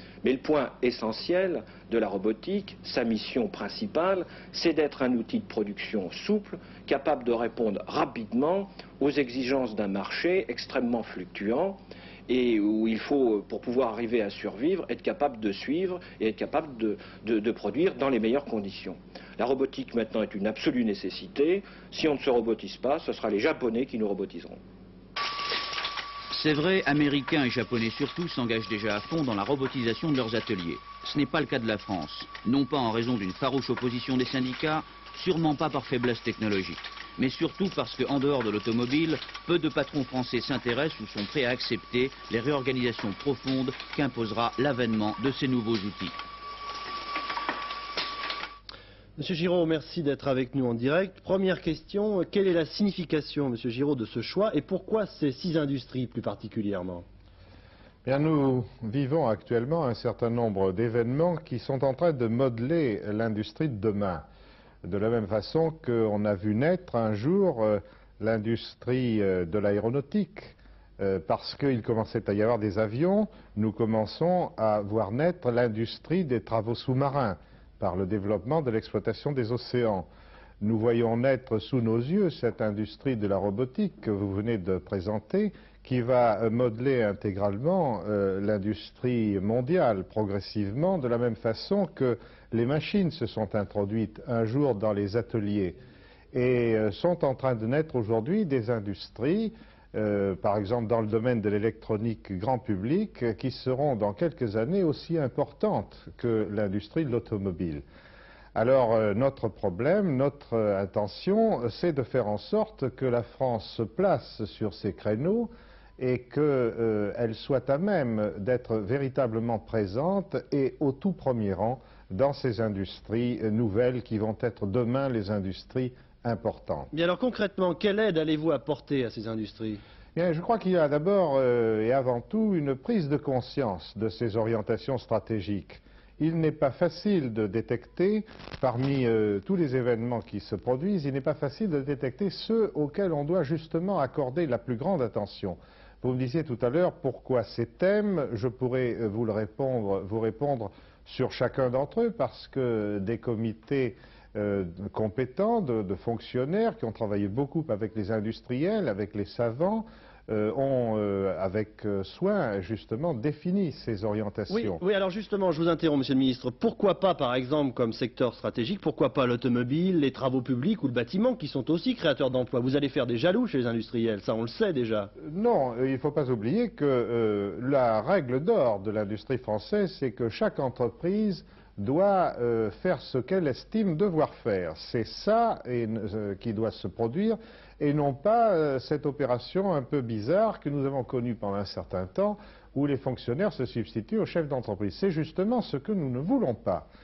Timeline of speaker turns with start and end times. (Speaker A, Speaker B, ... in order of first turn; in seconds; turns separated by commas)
Speaker A: 0.2-24.6, Speaker B: 26.3-46.2, Speaker C: 49.2-57.0, Speaker D: 58.0-64.3, Speaker D: 64.8-80.1, Speaker D: 80.6-95.8, Speaker D: 96.3-107.8, Speaker D: 108.5-126.9, Speaker C: 126.9-129.8, Speaker D: 130.2-164.8, Speaker C: 164.5-175.1, Speaker D: 175.2-196.9